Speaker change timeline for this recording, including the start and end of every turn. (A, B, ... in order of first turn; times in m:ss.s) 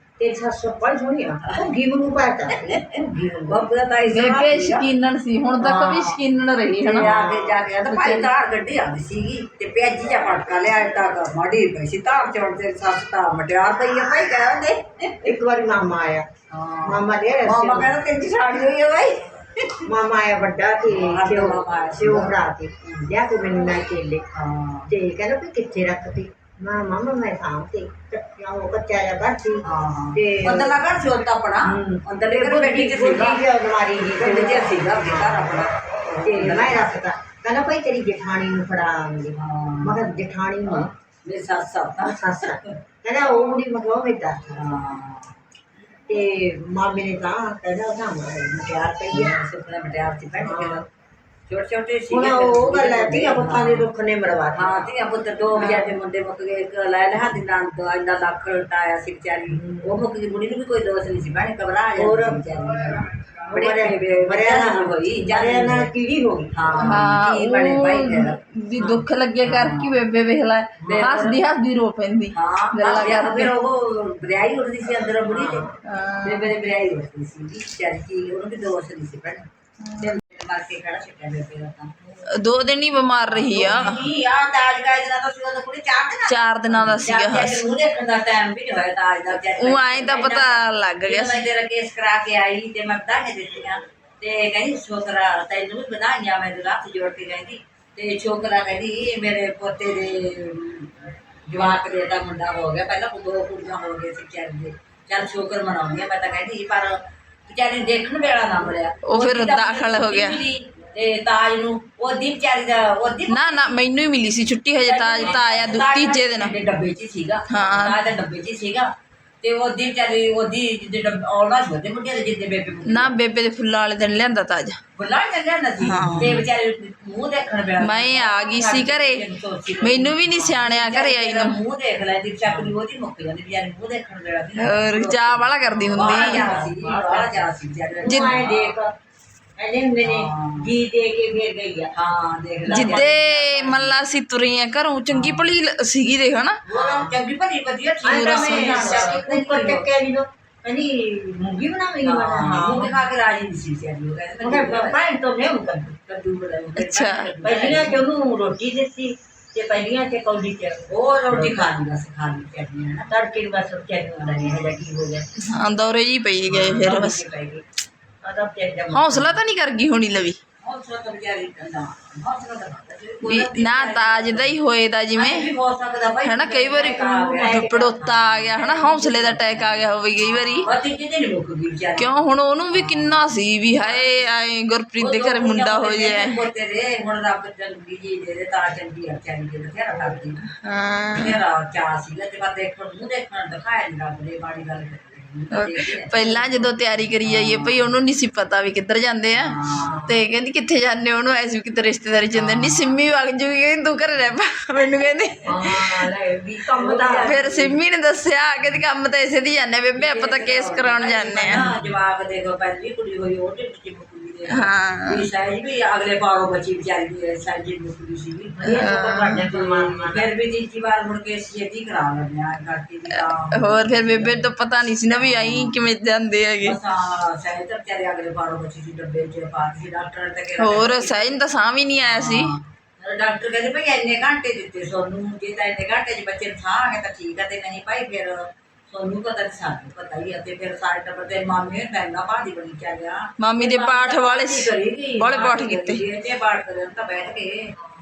0:00.2-0:03.7 A
0:02.5-0:04.9 B
0:04.1-0:07.1 C
0:05.6-0:06.2 B
0:06.8-0:15.3 B
0:07.0-0:07.5 A
0:07.9-0:08.3 C
0:15.2-0:16.3 A
0:16.5-0:19.9 B
0:16.9-0:18.0 A
0:19.9-0:24.2 A
0:20.9-0:23.1 B
0:24.3-0:24.9 B
0:24.9-0:29.6 A
0:29.6-0:33.4 B
0:30.1-0:30.8 A
0:31.6-0:35.5 A
0:34.2-0:37.0 B
0:36.2-0:40.9 A
0:39.3-0:40.1 B
0:41.2-0:42.8 B
0:42.0-0:44.5 A
0:44.5-0:45.4 B
0:46.1-0:49.4 A
0:49.1-0:50.9 B
0:50.4-0:50.8 A
0:51.5-0:53.9 B
0:52.1-0:54.9 A
0:54.5-1:05.9 B
0:55.6-0:55.9 C
0:59.5-0:59.9 A
1:02.0-1:02.4 A
1:03.5-1:06.9 A
1:06.5-1:08.4 B
1:06.8-1:13.5 C
1:08.8-1:09.0 A
1:09.4-1:10.0 B
1:10.8-1:11.3 A
1:10.9-1:11.4 B
1:12.3-1:15.7 B
1:15.0-1:15.7 A
1:15.9-1:16.5 C
1:16.2-1:19.4 B
1:19.8-1:20.2 C
1:20.0-1:21.9 B
1:22.3-1:24.0 C
1:23.3-1:53.7 B
1:26.3-1:27.6 C
1:29.6-1:31.5 C
1:49.1-1:50.4 C
1:53.3-1:56.5 C
1:54.8-1:58.9 B
1:57.5-1:58.0 C
1:59.4-2:03.2 B
2:02.9-2:04.8 C
2:05.0-2:18.8 B
2:05.8-2:06.5 C
2:07.8-2:09.2 C
2:09.8-2:11.6 C
2:14.6-2:16.6 C
2:15.7-2:17.4 A
2:18.0-2:18.9 A
2:18.1-2:18.4 C
2:19.6-2:21.9 A
2:20.0-2:20.6 B
2:22.0-2:24.0 B
2:22.7-2:26.6 C
2:25.1-2:25.4 B
2:26.7-2:29.8 B
2:26.7-2:27.1 A
2:28.0-2:33.0 A
2:28.1-2:29.2 C
2:32.0-2:35.0 B
2:34.4-2:36.0 A
2:36.1-2:38.0 B
2:36.8-2:37.3 C
2:37.4-2:41.7 A
2:40.9-2:43.1 B
2:43.1-2:45.2 A
2:44.2-2:44.5 B
2:45.5-2:47.2 C
2:46.5-2:47.1 B
2:46.5-2:47.6 A
2:48.2-2:49.4 A
2:48.9-2:50.4 C
2:50.6-2:54.6 B
2:53.2-2:55.5 C
2:55.2-3:04.3 B
2:56.2-3:00.7 C
2:57.0-2:58.0 A
3:02.0-3:06.4 C
3:05.0-3:10.4 B
3:10.5-3:11.4 C
3:11.1-3:16.6 B
3:15.5-3:19.5 C
3:17.2-3:18.0 B
3:19.3-3:20.0 B
3:19.7-3:20.2 A
3:20.1-3:26.1 C
3:22.3-3:23.0 B
3:25.4-3:27.4 A
3:26.8-3:27.8 B
3:27.2-3:31.6 C
3:30.0-3:38.8 B
3:34.5-3:35.3 C
3:38.6-3:40.3 A
3:38.8-3:39.4 C
3:39.4-3:44.5 B
3:43.1-3:46.8 C
3:45.1-3:45.8 B
3:46.6-3:51.4 B
3:50.6-3:52.5 C
3:52.0-4:07.7 B
4:03.4-4:06.0 C